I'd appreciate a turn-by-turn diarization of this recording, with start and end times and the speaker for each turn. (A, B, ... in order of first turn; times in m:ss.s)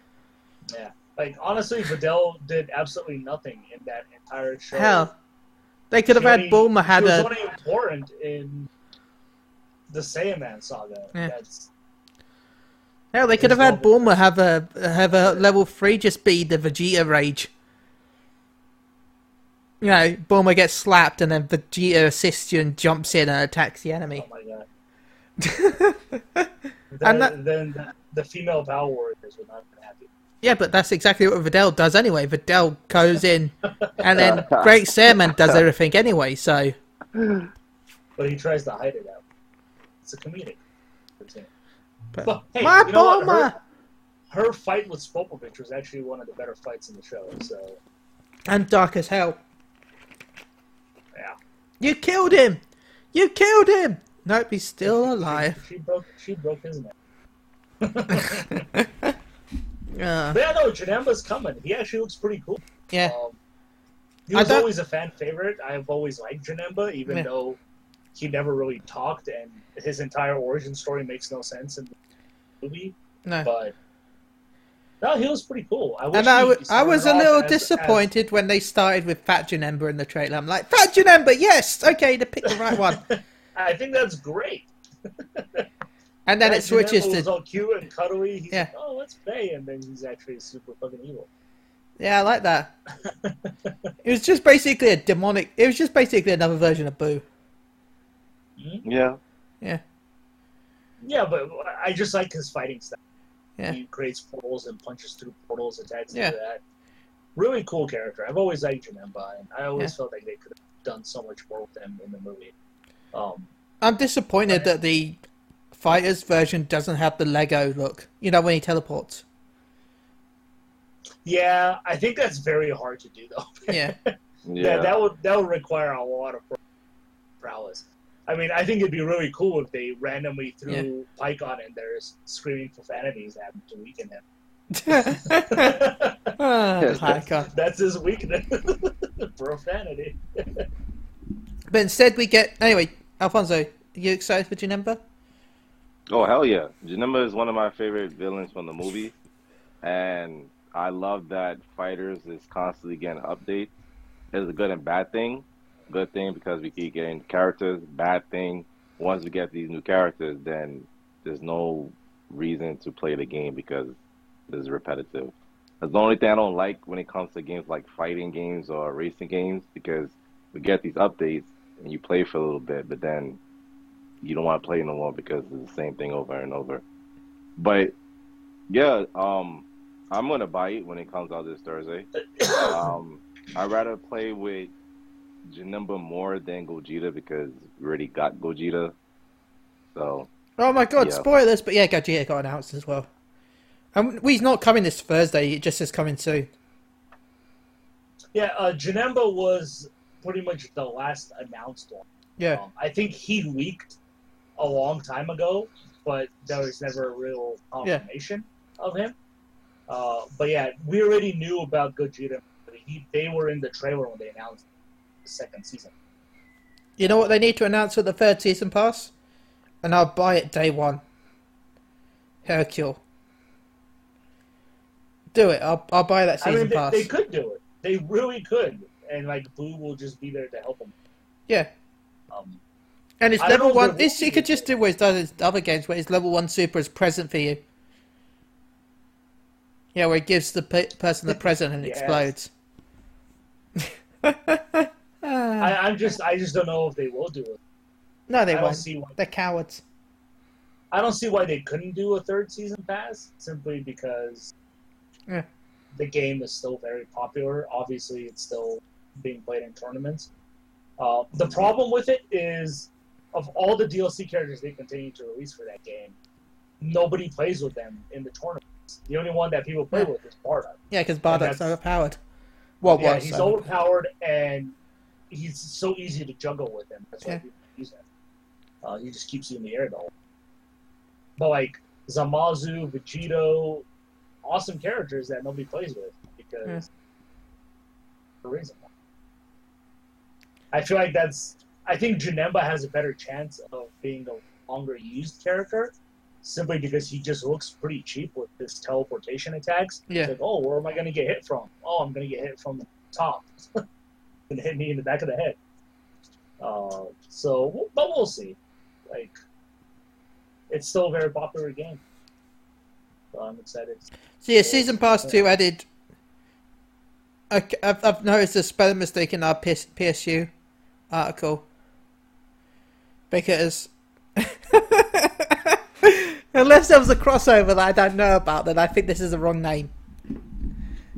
0:00.7-0:05.1 A
0:04.7-0:05.1 B
0:05.9-0:07.3 B
0:06.1-0:08.7 A
0:09.9-0:11.7 A
0:13.1-0:17.5 B
0:13.4-0:14.2 A
0:19.8-0:24.2 B
0:24.2-0:24.7 A
0:25.4-0:26.5 B
0:26.9-0:30.1 A
0:27.0-0:27.3 B
0:30.4-0:36.8 B
0:33.8-0:34.5 A
0:34.2-0:34.7 C
0:37.1-0:37.5 C
0:38.2-0:39.2 A
0:40.0-0:40.6 A
0:41.2-0:41.5 A
0:42.1-0:43.5 B
0:42.2-0:43.6 A
0:44.3-0:47.8 A
0:48.5-0:49.4 B
0:51.8-0:52.6 B
0:53.1-0:55.6 B
0:54.8-0:57.0 A
0:57.8-0:58.7 A
0:58.2-0:59.1 B
0:59.9-1:00.4 B
1:00.3-1:03.4 A
1:02.9-1:03.1 B
1:04.3-1:07.6 A
1:04.3-1:04.7 B
1:08.2-1:11.9 A
1:12.6-1:13.8 A
1:15.0-1:18.1 A
1:16.1-1:23.0 B
1:22.5-1:25.7 A
1:26.3-1:27.3 B
1:26.4-1:31.3 A
1:32.0-1:32.7 B
1:33.0-1:33.7 A
1:34.0-1:37.2 B
1:38.6-1:38.8 A
1:38.8-1:39.2 C
1:41.0-1:43.0 A
1:43.7-1:46.6 A
1:47.4-1:52.5 A
1:53.1-1:53.5 A
1:53.8-1:55.2 B
1:55.7-1:59.2 B
2:01.2-2:06.6 A
2:03.7-2:03.9 B
2:04.4-2:04.9 C
2:07.4-2:14.2 A
2:14.7-2:15.9 B
2:14.9-2:16.4 A
2:16.4-2:17.5 B
2:16.8-2:17.0 C
2:16.9-2:20.7 A
2:21.7-2:25.0 B
2:26.1-2:29.1 C
2:29.8-2:33.7 C
2:34.3-2:44.0 C
2:44.5-2:53.4 C
2:54.2-2:56.8 C
2:57.6-2:57.9 C
2:58.7-3:04.7 C
3:02.4-3:02.8 A
3:05.4-3:09.0 C
3:10.0-3:10.3 C
3:10.6-3:13.1 B
3:11.0-3:11.2 C
3:13.9-3:16.5 B
3:18.3-3:24.0 A
3:24.6-3:29.2 A
3:29.9-3:34.6 A
3:35.2-3:35.9 A
3:37.0-3:39.1 B
3:39.8-3:41.0 B
3:42.4-3:43.0 B
3:45.3-3:47.1 B
3:46.4-3:50.9 A
3:52.3-3:52.6 A
3:53.2-3:57.6 B
3:53.4-3:54.7 A
4:00.0-4:02.5 B
4:01.3-4:02.3 A
4:03.8-4:05.8 B
4:05.6-4:07.6 A
4:08.3-4:09.8 B
4:08.5-4:09.2 A
4:10.9-4:14.5 A
4:15.9-4:20.3 A
4:21.0-4:26.2 A
4:26.8-4:31.8 A
4:30.9-4:32.2 B
4:32.8-4:33.6 B
4:32.9-4:34.8 A
4:35.3-4:38.0 A
4:38.8-4:40.1 A
4:41.4-4:43.9 A
4:44.4-4:46.9 A
4:48.4-4:48.9 A
4:50.7-5:03.8 A
5:00.1-5:00.3 B
5:04.5-5:05.6 A
5:06.6-5:08.6 A
5:09.1-5:09.4 A
5:10.7-5:12.0 A
5:13.3-5:14.1 A
5:14.4-5:15.9 B
5:14.6-5:15.4 A
5:17.5-5:20.5 B
5:21.1-5:21.6 B
5:23.3-5:29.9 B